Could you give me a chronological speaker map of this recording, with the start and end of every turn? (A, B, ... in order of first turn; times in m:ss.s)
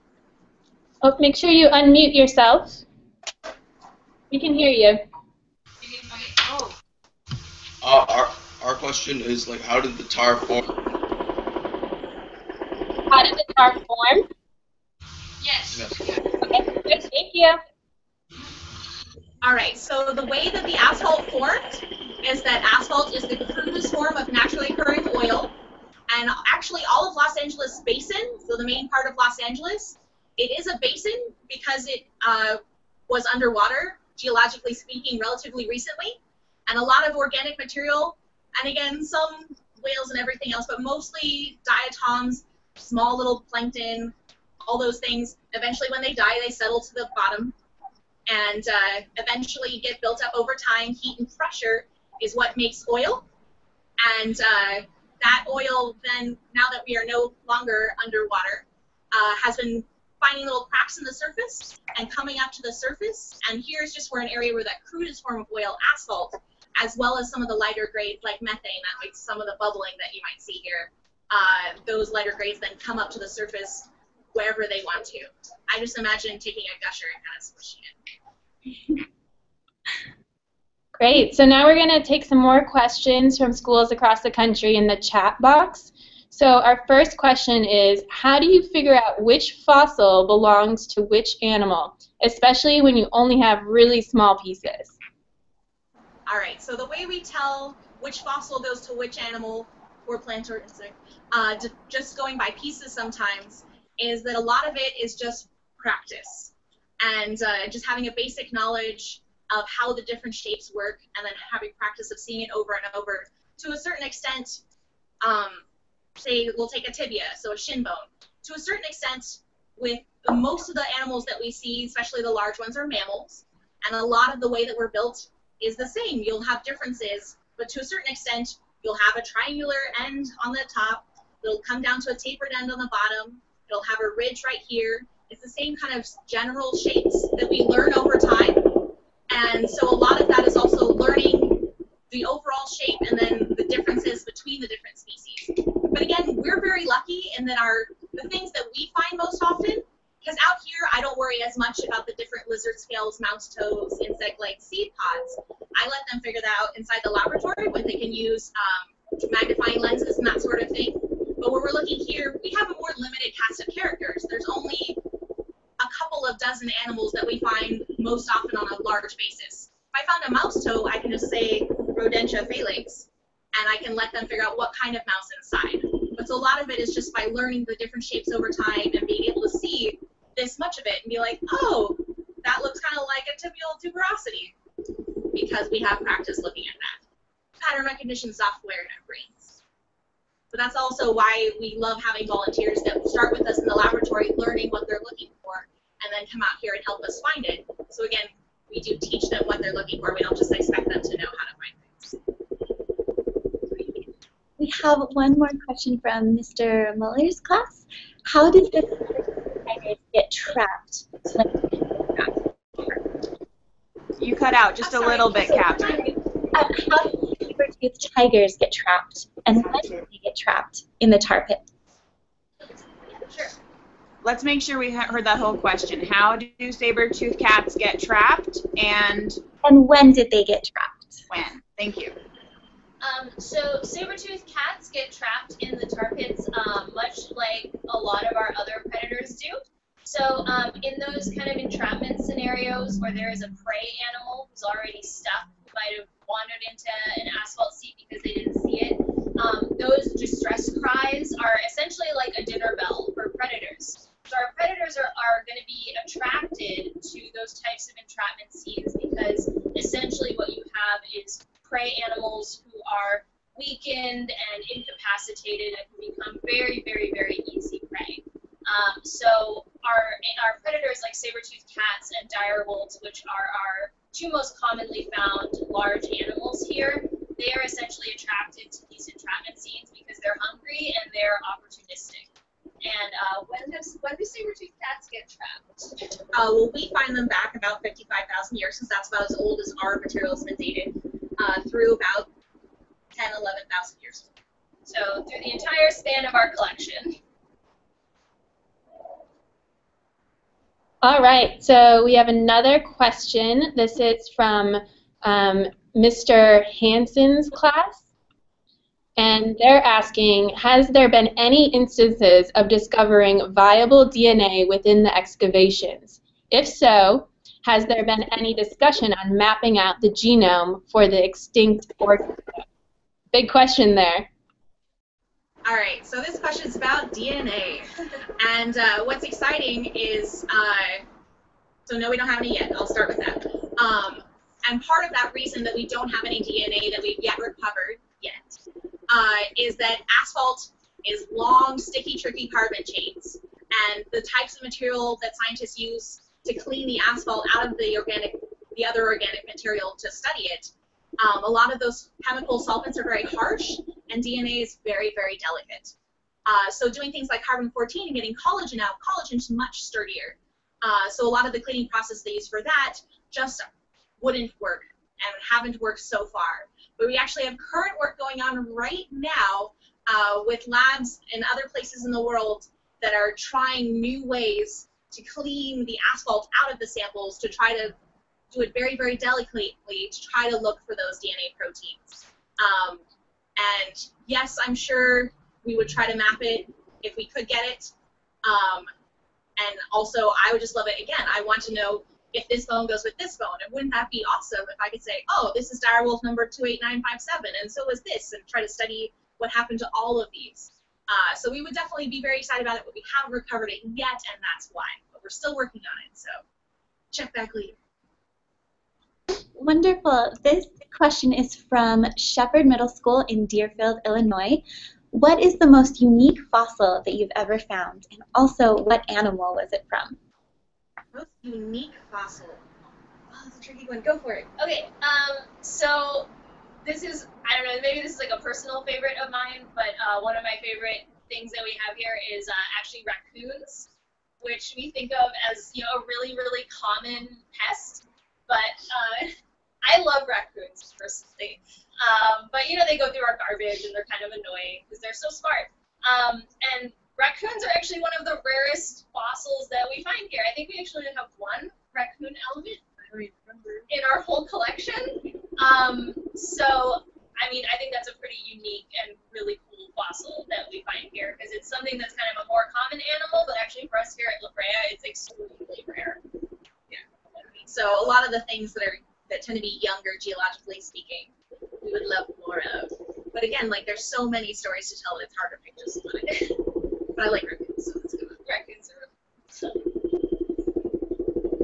0:01.0-0:02.8 A
0:04.3-0:05.0 A
0:07.8-0:10.6 B
0:13.1-0:14.2 A
0:15.7-0:16.1 B
0:16.4-0:17.6 A
0:19.4-0:25.6 C
0:26.1-0:47.6 C
0:48.3-0:53.3 C
0:54.0-1:18.0 C
1:21.0-1:34.9 A
1:36.3-1:54.6 C
1:55.2-1:55.6 C
1:56.2-2:18.6 C
2:19.3-2:45.0 C
2:45.8-3:04.6 C
3:05.3-3:07.0 C
3:07.6-3:09.6 C
3:10.5-3:22.2 C
3:23.7-3:24.1 D
3:24.6-3:33.0 D
3:34.2-3:36.0 E
3:35.2-3:35.5 C
3:36.5-3:41.6 D
3:43.2-3:43.6 F
3:44.2-3:49.4 E
3:49.6-3:51.2 D
3:51.3-3:52.2 E
3:53.0-4:42.3 F
4:42.8-4:46.0 F
4:46.3-4:52.3 C
4:53.1-4:54.3 C
4:54.9-4:57.2 F
5:01.0-5:08.1 A
5:09.2-5:22.6 A
5:23.3-5:24.3 A
5:25.6-5:31.0 C
5:31.9-5:55.9 C
5:56.5-6:03.7 C
6:04.2-6:18.0 C
6:18.5-6:23.0 C
6:23.6-6:27.9 C
6:28.4-6:28.9 C
6:29.6-6:46.4 C
6:47.1-6:47.8 C
6:49.5-7:00.2 D
7:01.1-7:02.6 C
7:03.3-7:04.5 C
7:04.6-7:06.3 F
7:06.8-7:13.9 F
7:14.4-7:32.8 F
7:33.1-7:33.8 C
7:33.9-7:46.2 F
7:47.6-7:56.6 C
7:57.1-7:58.4 C
7:58.4-7:59.9 F